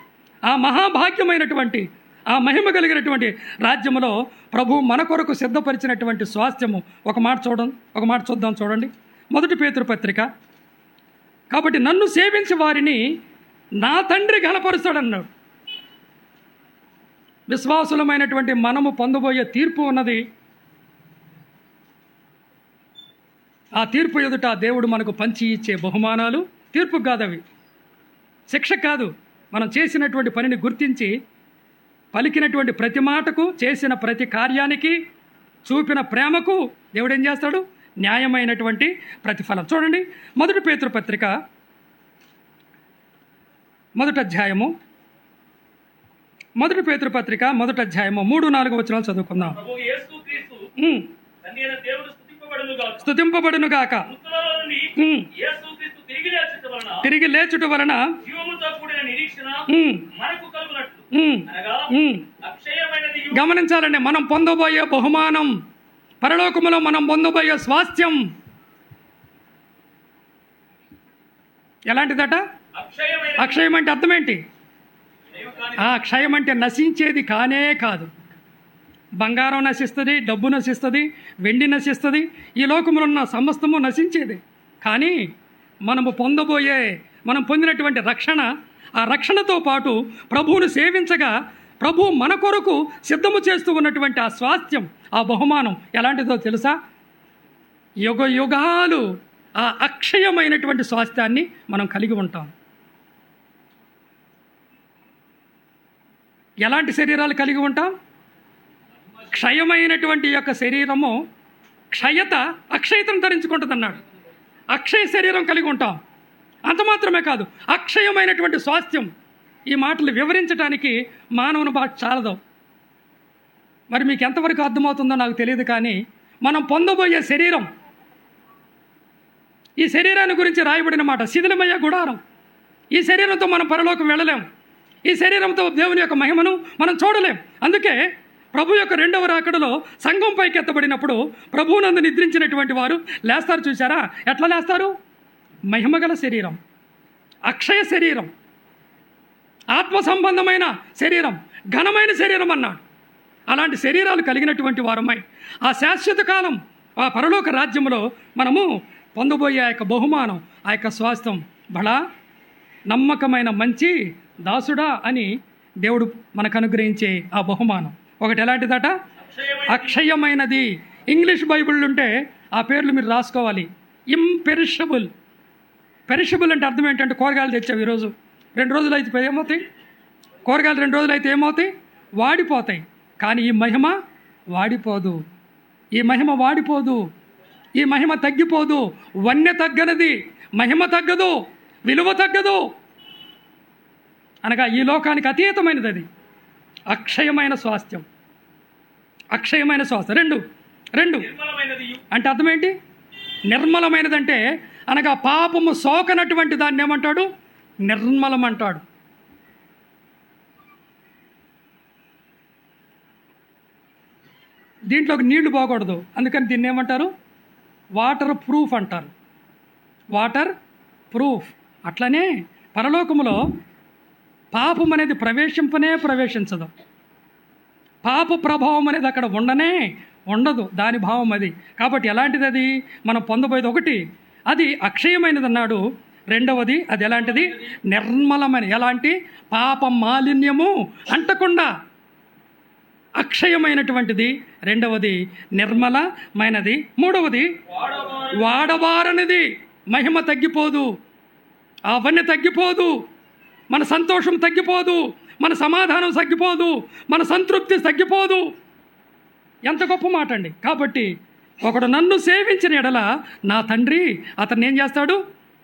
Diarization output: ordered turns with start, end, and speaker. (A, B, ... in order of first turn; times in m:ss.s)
0:00.5-0:10.3 A
0:11.5-0:13.0 A
0:13.8-0:15.3 A
0:17.5-0:20.2 A
0:23.8-0:27.4 A
0:28.5-0:31.1 A
0:32.1-0:35.0 A
0:35.6-0:41.3 A
0:44.0-0:44.7 A
0:46.6-0:49.6 A
0:49.4-0:50.7 B
0:50.8-0:51.1 A
0:51.4-0:53.1 B
0:53.0-0:54.1 A
0:54.0-0:57.1 B
0:55.0-0:55.3 A
0:57.0-0:58.0 A
0:58.2-1:03.4 B
0:59.7-1:00.1 A
1:01.1-1:02.3 A
1:03.3-1:05.5 A
1:06.2-1:08.2 A
1:11.9-1:12.4 A
1:12.7-1:13.6 B
1:13.4-1:14.4 A
1:15.3-1:15.9 B
1:15.8-1:18.1 A
1:19.2-1:25.2 A
1:25.8-1:36.8 A
1:38.0-1:39.0 A
1:39.6-1:42.5 A
1:46.6-1:47.9 A
1:49.2-1:51.2 A
1:51.9-1:54.0 A
1:54.7-1:56.0 A
1:56.6-1:59.1 A
1:59.7-2:02.4 A
2:03.9-2:07.7 A
2:09.8-2:12.2 A
2:12.9-2:14.4 A
2:15.1-2:18.0 A
2:18.5-2:24.9 A
2:25.7-2:26.6 A
2:27.5-2:28.3 A
2:29.7-2:32.8 A
2:33.5-2:42.0 A
2:42.9-2:45.3 A
2:45.8-2:48.9 A
2:49.2-2:50.0 B
2:49.6-2:55.1 A
2:56.1-2:59.6 A
3:00.4-3:04.0 A
3:04.5-3:05.2 A
3:06.0-3:07.0 A
3:07.8-3:11.4 A
3:11.9-3:12.6 A
3:14.4-3:16.0 A
3:16.9-3:18.0 A
3:19.3-3:20.4 A
3:21.0-3:21.3 A
3:21.2-3:22.1 B
3:22.1-3:22.7 A
3:23.5-3:27.3 A
3:27.8-3:28.8 A
3:34.9-3:37.1 A
3:38.0-3:39.1 A
3:40.1-3:40.5 A
3:41.1-3:43.4 A
3:44.5-3:46.7 A
3:48.0-4:01.7 A
4:03.2-4:07.6 A
4:07.7-4:08.8 B
4:08.3-4:10.9 A
4:11.9-4:12.9 A
4:13.7-4:18.4 A
4:19.6-4:21.1 A
4:21.6-4:25.2 A